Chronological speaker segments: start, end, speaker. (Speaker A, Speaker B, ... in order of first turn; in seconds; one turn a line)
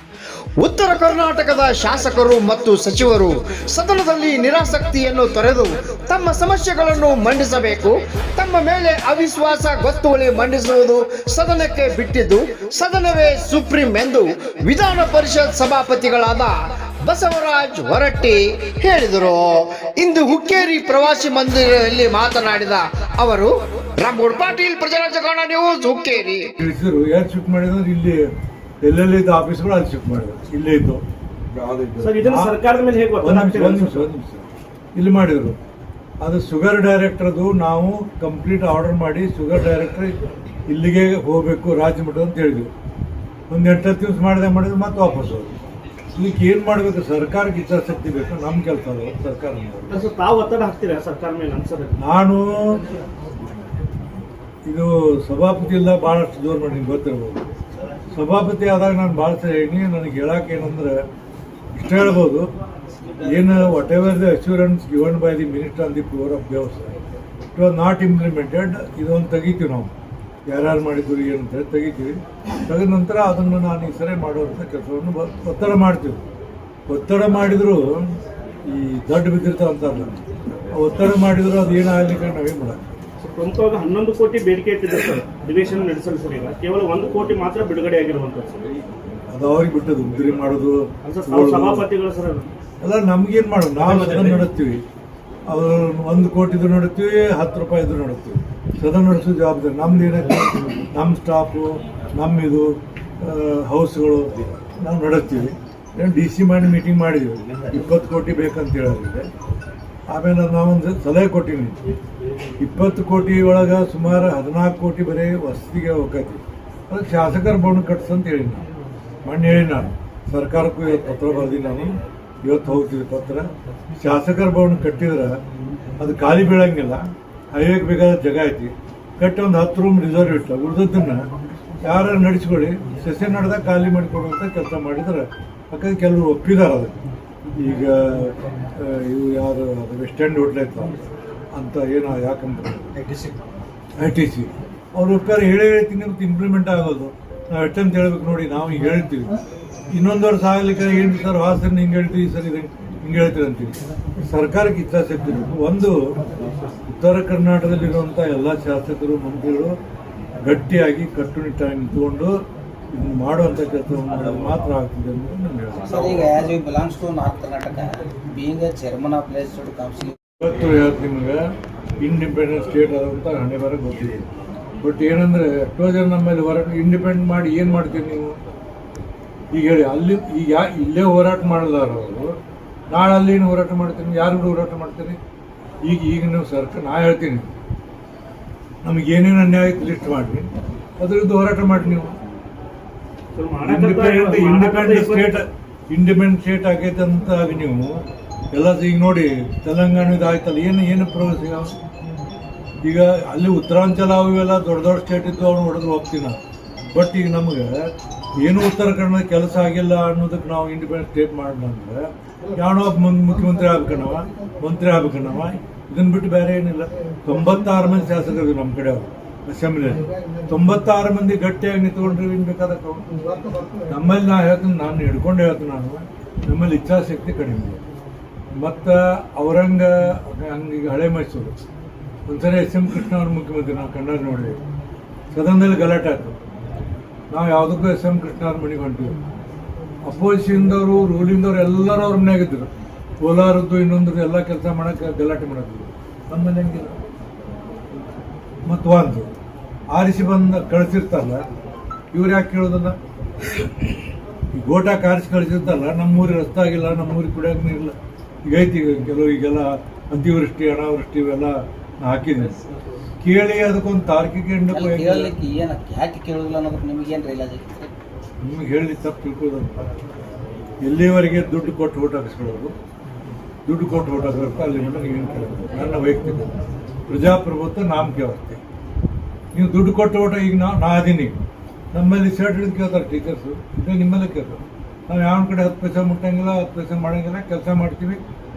Speaker A: 0.6-26.5
Speaker B: 26.6-28.3
Speaker B: 28.8-31.0
Speaker B: 31.7-32.5
Speaker C: 32.0-34.1
Speaker B: 33.2-35.6
Speaker B: 36.2-40.1
Speaker B: 40.7-42.7
Speaker B: 43.5-45.6
Speaker B: 46.1-50.0
Speaker C: 49.9-52.0
Speaker B: 52.0-52.8
Speaker B: 54.7-57.4
Speaker B: 58.1-61.0
Speaker B: 61.8-62.5
Speaker B: 63.2-67.0
Speaker B: 67.5-69.9
Speaker B: 70.5-76.2
Speaker B: 76.9-78.0
Speaker B: 78.7-80.1
Speaker B: 80.7-82.8
Speaker C: 83.2-88.7
Speaker B: 89.3-91.9
Speaker C: 91.0-92.5
Speaker B: 92.8-94.8
Speaker C: 93.8-94.5
Speaker B: 95.5-109.3
Speaker B: 110.1-111.8
Speaker B: 112.6-118.7
Speaker B: 119.2-125.4
Speaker B: 126.0-131.3
Speaker B: 131.8-140.9
Speaker B: 141.5-142.9
Speaker B: 144.0-149.4
Speaker B: 149.9-156.0
Speaker B: 156.9-159.7
Speaker B: 160.4-162.3
Speaker B: 162.9-166.0
Speaker D: 165.8-170.2
Speaker B: 170.4-171.5
Speaker B: 172.0-174.3
Speaker B: 174.8-178.4
Speaker B: 179.5-182.3
Speaker B: 182.9-185.2
Speaker B: 185.8-187.5
Speaker B: 188.8-190.5
Speaker B: 191.0-192.1
Speaker C: 193.4-195.4
Speaker B: 193.7-197.9
Speaker B: 198.5-201.7
Speaker B: 202.8-206.4
Speaker B: 206.9-223.1
Speaker B: 223.9-227.8
Speaker B: 228.6-231.5
Speaker B: 232.3-234.6
Speaker B: 235.3-236.3
Speaker B: 237.3-239.2
Speaker B: 240.0-247.0
Speaker B: 248.7-249.3
Speaker B: 249.9-251.4
Speaker B: 252.1-253.0
Speaker B: 254.5-262.6
Speaker B: 263.2-265.4
Speaker D: 264.7-267.9
Speaker B: 268.4-269.9
Speaker B: 270.8-272.7
Speaker B: 273.7-276.6
Speaker B: 277.1-278.6
Speaker B: 279.5-281.4
Speaker B: 281.9-288.2